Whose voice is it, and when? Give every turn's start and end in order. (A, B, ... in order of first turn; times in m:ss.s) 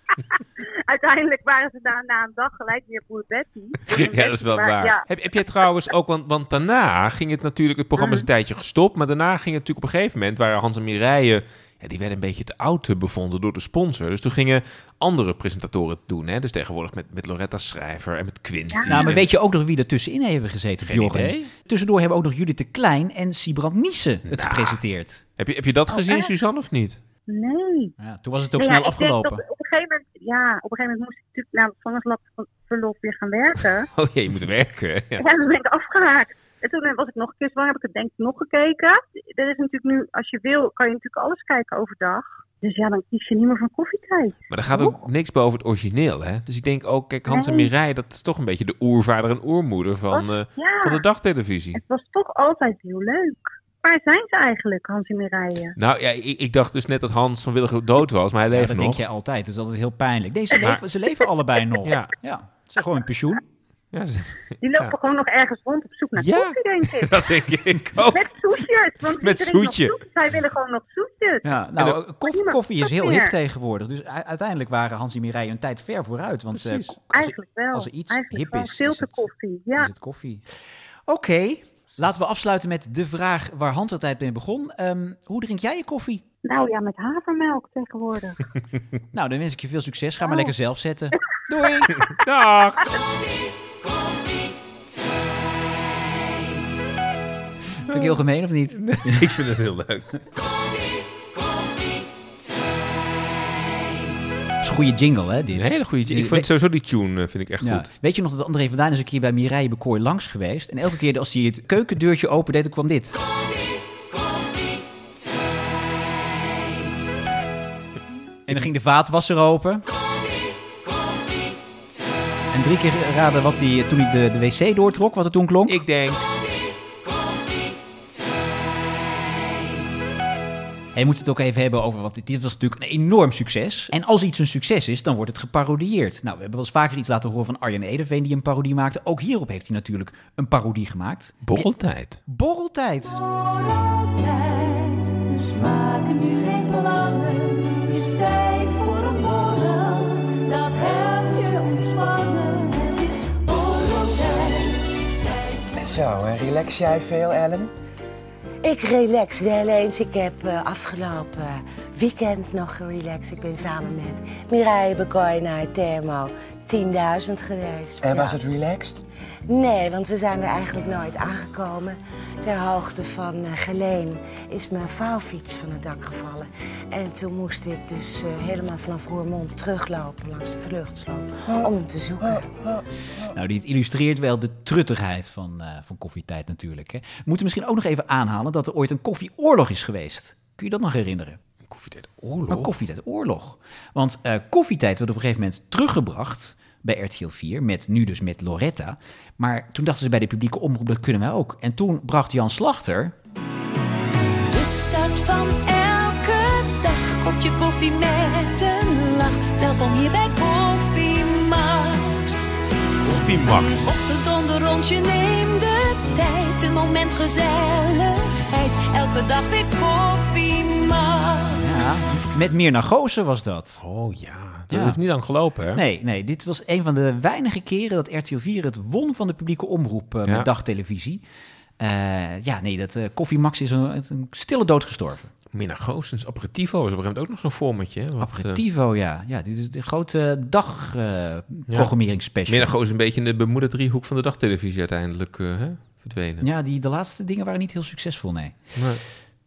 0:00.3-0:05.0 A
0:03.9-0:19.3 B
0:08.0-0:08.3 A
0:18.7-0:19.1 A
0:18.9-0:25.2 C
0:20.8-0:21.5 B
0:24.3-0:24.8 B
0:25.4-0:27.0 B
0:25.9-0:26.3 A
0:27.3-0:28.0 A
0:28.0-0:29.4 C
0:28.6-0:33.9 A
0:33.9-0:35.2 B
0:35.2-0:45.0 A
0:44.5-0:51.8 B
0:47.3-0:47.7 A
0:50.1-0:51.0 A
0:51.7-0:55.8 A
0:55.8-0:59.0 B
0:58.5-1:03.4 C
1:00.6-1:00.8 B
1:01.8-1:02.1 B
1:03.9-1:05.0 B
1:04.6-1:07.1 A
1:06.1-1:08.4 B
1:08.0-1:11.5 A
1:09.2-1:10.0 B
1:11.4-1:20.5 C
1:12.3-1:13.3 A
1:16.5-1:17.0 B
1:17.1-1:19.9 A
1:21.1-1:26.2 C
1:26.4-1:28.4 A
1:29.1-1:31.9 C
1:30.2-1:30.5 A
1:32.0-1:32.9 B
1:37.8-1:39.4 C
1:37.9-1:40.2 B
1:44.6-1:46.5 C
1:45.5-1:47.9 B
1:47.6-1:53.2 C
1:58.5-1:59.8 C
2:02.5-2:05.8 C
2:05.7-2:06.3 B
2:10.9-2:21.7 C
2:21.4-2:22.2 B
2:22.3-2:23.2 C
2:23.2-2:35.6 D
2:35.8-2:37.7 E
2:38.6-2:48.4 F
2:48.0-2:49.0 E
2:49.5-3:02.6 F
3:03.3-3:11.4 C
3:11.7-3:12.7 B
3:12.5-3:23.1 C
3:24.5-3:32.5 D
3:33.0-3:33.9 B
3:33.1-3:42.1 D
3:41.6-3:43.8 C
3:43.8-3:45.8 B
3:44.7-3:45.0 C
3:45.7-3:51.2 C
3:51.8-3:55.3 C
3:55.5-3:58.6 B
3:58.2-4:02.7 C
4:02.5-4:06.4 B
4:06.4-4:08.6 C
4:08.8-4:09.0 B